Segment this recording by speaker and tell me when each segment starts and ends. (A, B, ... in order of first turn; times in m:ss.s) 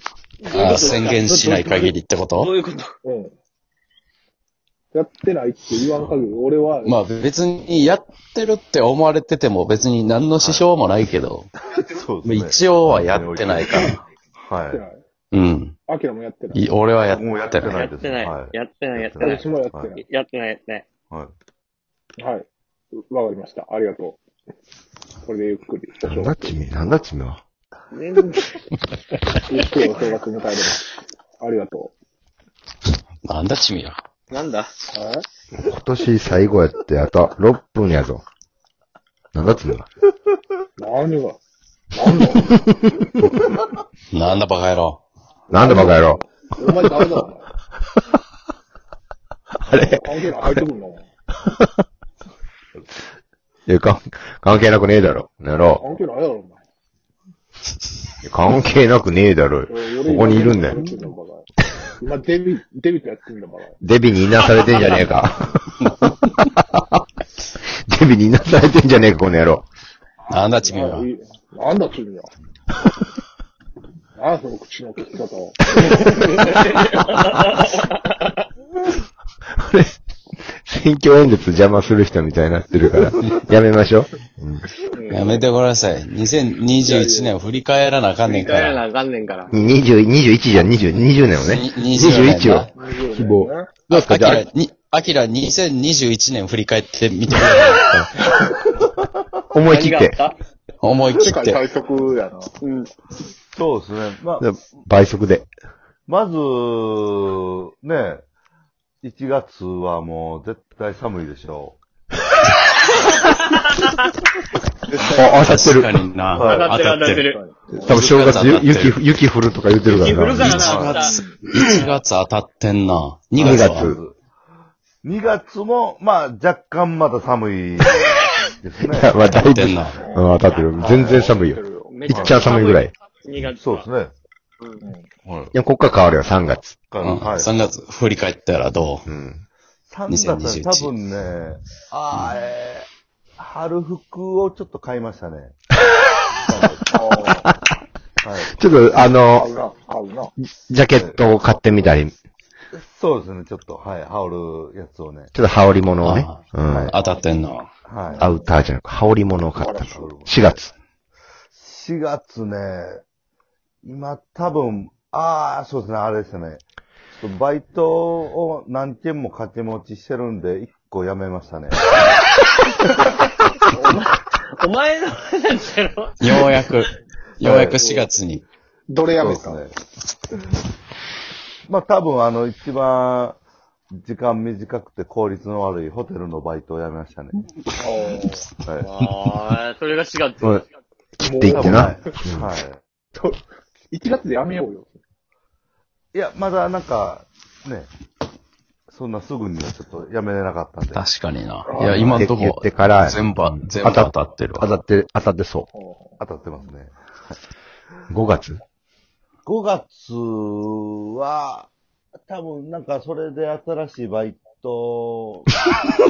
0:00.4-0:02.9 A
0:00.5-0:02.5 B
0:01.1-0:01.9 C
0:03.0-0:03.3 D
0:04.9-0:07.0 D
0:06.8-0:11.5 B
0:10.4-0:10.7 C
0:11.7-0:14.8 C
0:12.2-0:14.0 B
0:14.7-0:15.0 D
0:15.3-0:15.7 B
0:15.9-0:16.6 D
0:16.5-0:17.9 B
0:17.1-0:19.9 C
0:17.6-0:20.9 A
0:19.2-0:20.0 D
0:22.2-0:24.2 D
0:25.2-0:26.6 D
0:26.0-0:27.4 E
0:27.9-0:28.5 A
0:29.3-0:31.9 D
0:29.6-0:29.9 A
0:33.2-0:34.0 B
0:34.3-0:34.7 A
0:34.9-0:35.2 D
0:35.6-0:38.2 E
0:39.3-0:39.9 E
0:40.8-0:41.4 D
0:41.9-0:42.6 D
0:42.5-0:43.3 E
0:44.1-0:45.0 B
0:45.5-0:46.2 E
0:45.5-0:47.5 D
0:49.6-0:50.6 E
0:49.7-0:51.1 D
0:51.4-0:51.7 E
0:53.7-0:55.8 E
0:55.7-0:56.6 D
0:58.2-1:00.9 E
0:59.7-1:01.5 D
1:02.0-1:03.8 D
1:03.8-1:07.0 E
1:07.6-1:09.6 E
1:10.3-1:11.0 B
1:10.6-1:12.3 D
1:14.2-1:16.4 D
1:15.8-1:16.5 E
1:16.3-1:18.4 A
1:19.5-1:20.0 E
1:20.6-1:24.7 E
1:24.9-1:25.4 D
1:25.1-1:28.8 B
1:26.8-1:27.4 D
1:28.2-1:29.5 A
1:29.5-1:34.4 E
1:31.4-1:32.7 B
1:32.7-1:33.7 D
1:33.9-1:38.0 B
1:39.5-1:40.2 E
1:39.6-1:40.4 A
1:40.8-1:41.6 B
1:41.1-1:42.5 D
1:42.6-1:42.9 A
1:43.5-1:44.5 C
1:44.4-1:45.5 E
1:46.1-1:48.2 C
1:49.0-1:51.8 C
1:53.2-1:53.9 A
1:54.9-1:55.3 C
1:55.0-1:56.0 E
1:55.2-1:57.3 B
1:56.3-1:56.9 C
1:56.4-1:57.4 A
1:57.2-1:58.5 D
1:57.7-2:00.6 E
1:57.8-1:59.0 B
1:59.8-2:01.9 A
2:00.3-2:03.9 B
2:00.6-2:01.0 C
2:00.9-2:01.4 D
2:03.4-2:04.0 E
2:03.4-2:04.1 C
2:05.0-2:09.2 C
2:08.9-2:12.9 E
2:09.2-2:10.0 B
2:10.0-2:12.0 D
2:11.9-2:13.9 A
2:12.1-2:12.6 C
2:13.5-2:14.1 C
2:14.6-2:14.8 A
2:14.8-2:15.1 D
2:15.2-2:15.5 C
2:15.5-2:16.8 E
2:16.9-2:17.5 C
2:17.0-2:19.0 B
2:19.0-2:19.4 E
2:19.9-2:25.6 C
2:20.1-2:20.9 B
2:26.4-2:26.9 C
2:26.9-2:27.5 D
2:28.2-2:28.5 C
2:28.5-2:29.5 E
2:29.0-2:30.3 D
2:30.4-2:32.1 E
2:30.9-2:31.2 C
2:32.7-2:35.3 C
2:35.3-2:36.9 E
2:36.0-2:37.7 B
2:36.6-2:37.0 C
2:37.8-2:38.3 C
2:38.2-2:40.7 E
2:39.6-2:40.0 D
2:40.0-2:40.6 C
2:41.5-2:43.0 C
2:43.8-2:46.6 C
2:47.1-2:51.8 C
2:53.7-2:54.0 D
2:53.8-2:56.4 A
2:56.2-2:58.4 B
2:57.4-2:57.8 C
2:57.8-2:58.0 D
2:58.9-2:59.6 D
2:59.2-2:59.7 C
3:01.6-3:03.4 C
3:03.9-3:07.4 C
3:07.8-3:08.4 D
3:08.6-3:08.9 C
3:08.7-3:10.6 A
3:11.2-3:12.5 E
3:11.2-3:12.2 D
3:11.5-3:12.8 C
3:13.9-3:14.9 D
3:16.1-3:17.9 C
3:18.9-3:21.0 C
3:20.9-3:24.7 B
3:21.7-3:22.2 D
3:21.8-3:25.7 E
3:25.7-3:26.2 D
3:26.2-3:26.9 C
3:28.1-3:28.6 E
3:29.4-3:31.7 C
3:32.2-3:35.5 C